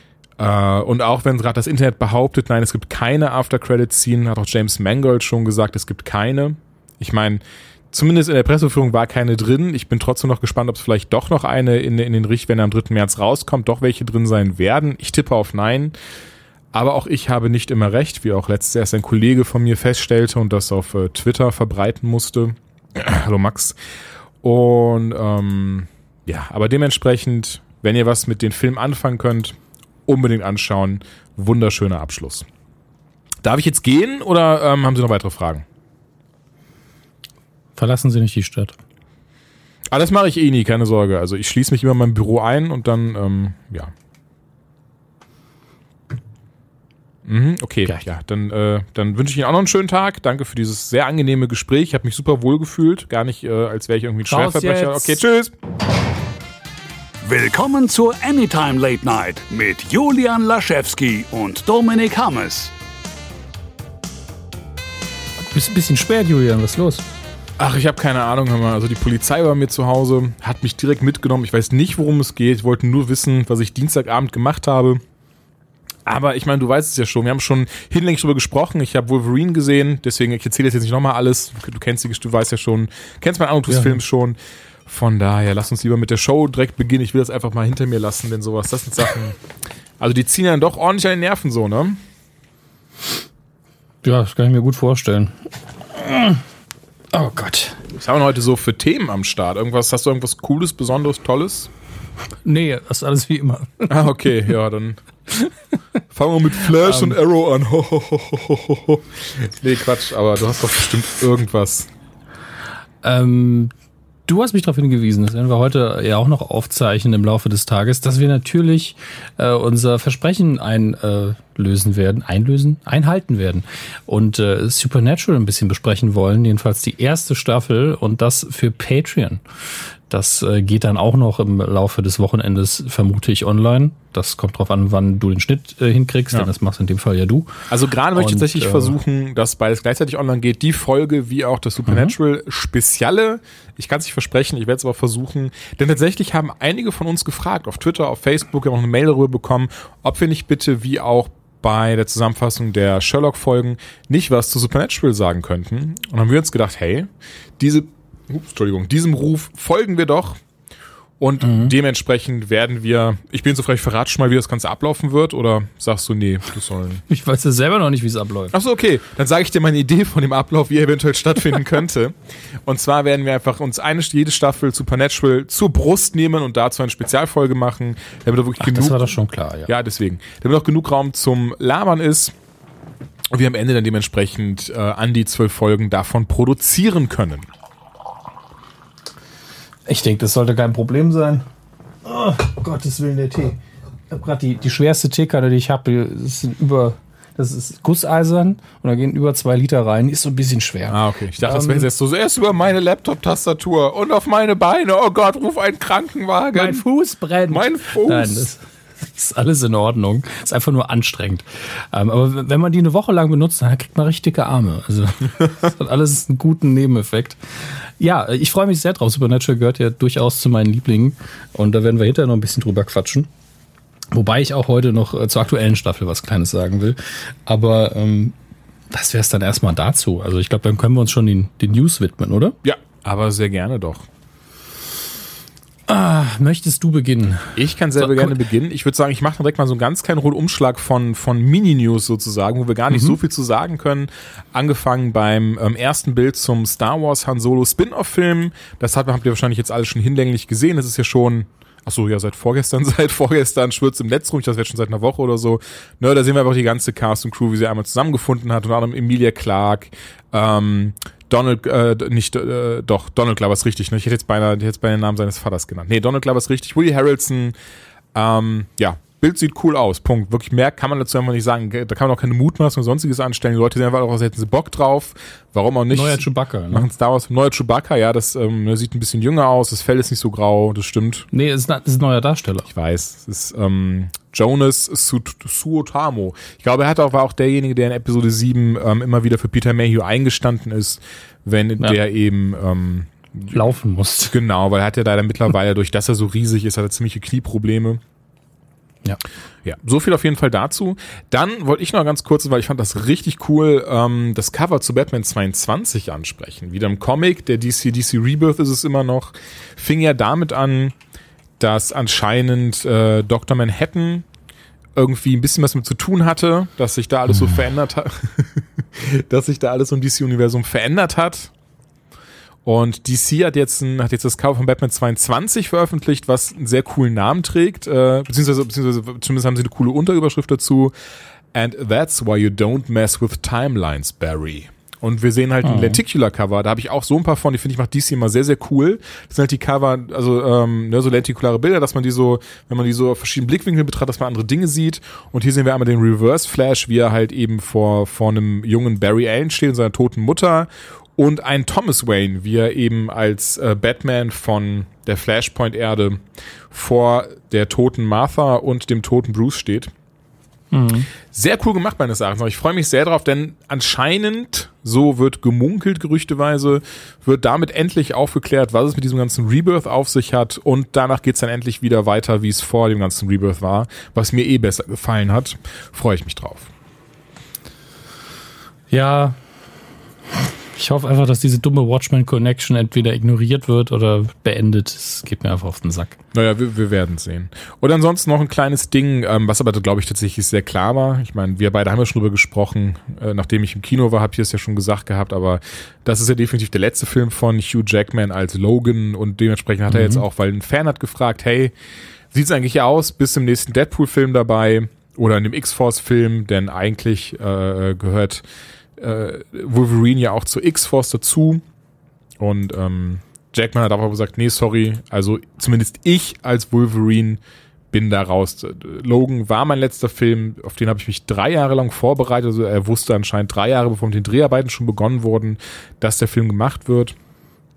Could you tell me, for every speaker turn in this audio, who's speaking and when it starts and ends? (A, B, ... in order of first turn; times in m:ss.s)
0:00.4-0:16.0 A
0:16.7-0:23.8 A
0:24.4-0:32.5 A
0:33.4-0:35.6 A
0:37.8-0:38.8 B
0:39.9-0:43.9 A
0:47.2-0:55.6 A
0:54.3-0:55.2 B
0:57.2-1:02.7 C
1:05.5-1:07.0 B
1:07.6-1:15.0 A
1:16.1-1:29.4 A
1:23.7-1:24.0 B
1:30.0-1:32.0 A
1:34.0-1:35.3 B
1:35.9-1:36.4 B
1:37.1-1:37.8 B
1:37.9-1:41.7 A
1:42.4-1:43.9 B
1:43.9-1:45.0 A
1:46.1-1:51.9 A
1:46.7-1:47.2 B
1:53.0-1:53.7 B
1:54.3-2:09.4 B
2:10.1-2:17.5 B
2:17.7-2:40.4 A
2:18.1-2:19.0 B
2:21.9-2:22.2 B
2:41.2-2:47.0 A
2:41.4-2:41.7 B
2:47.1-2:48.6 B
2:48.5-2:59.2 A
2:58.6-2:59.7 B
2:59.7-3:02.4 A
3:03.3-3:07.5 A
3:09.9-3:11.5 B
3:12.0-3:13.6 B
3:14.1-3:21.9 B
3:20.9-3:26.8 A
3:26.5-3:37.4 B
3:27.5-3:28.5 A
3:38.0-3:43.3 B
3:44.1-3:48.3 B
3:48.9-3:52.6 B
3:52.6-3:54.0 A
3:55.9-3:58.4 B
3:57.6-4:27.6 A
4:02.9-4:03.2 B
4:28.1-4:41.3 A
4:35.9-4:36.9 B
4:41.3-4:42.7 B
4:42.7-4:53.6 A
4:53.5-4:54.4 B
4:54.3-4:58.0 A
4:59.6-5:11.0 A
5:11.6-5:14.3 A
5:15.0-5:21.5 A
5:22.6-5:30.9 A
5:31.5-5:59.9 A
5:35.6-5:36.0 B
6:00.7-6:01.1 B
6:01.3-6:16.7 A
6:18.9-6:19.4 B
6:20.7-6:26.2 B
6:26.3-6:41.7 A
6:39.9-6:40.2 B
6:42.3-6:48.4 A
6:49.0-6:51.6 A
6:52.4-6:57.4 A
6:57.9-7:07.2 A